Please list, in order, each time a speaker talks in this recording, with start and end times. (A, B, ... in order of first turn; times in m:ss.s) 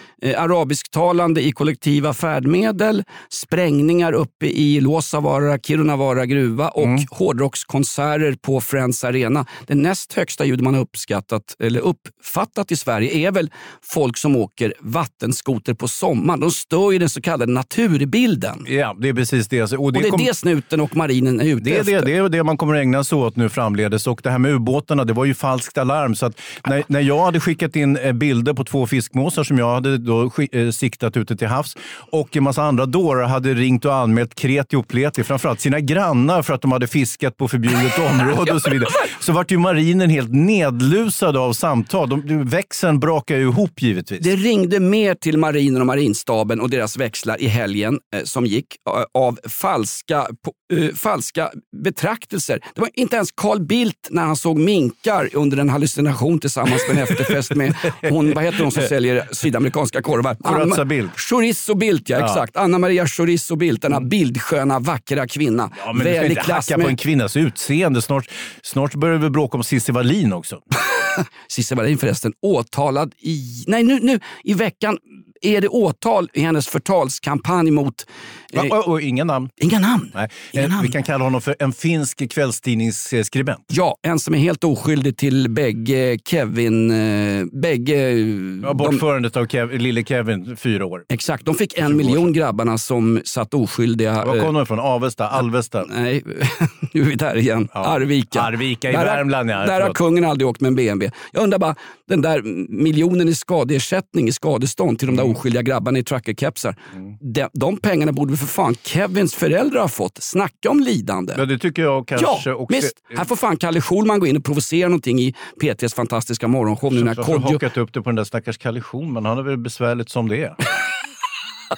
0:00.2-0:18.6 A
0:18.6-0:20.3 B
0:19.9-0:22.1 A
0:21.6-0:44.3 B
0:44.2-1:07.0 A
0:56.8-0:58.9 B
1:00.4-1:01.1 B
1:05.8-1:10.6 B
1:11.0-1:18.7 A
1:18.5-1:19.5 B
1:19.6-1:20.9 A
1:20.1-1:23.6 B
1:23.7-1:29.0 A
1:28.6-1:31.1 B
1:31.1-1:34.5 A
1:31.8-1:32.3 B
1:34.2-1:35.9 B
1:35.8-1:51.4 A
1:37.7-1:40.0 B
1:51.3-1:53.3 B
1:52.2-1:57.6 A
1:56.9-2:00.6 B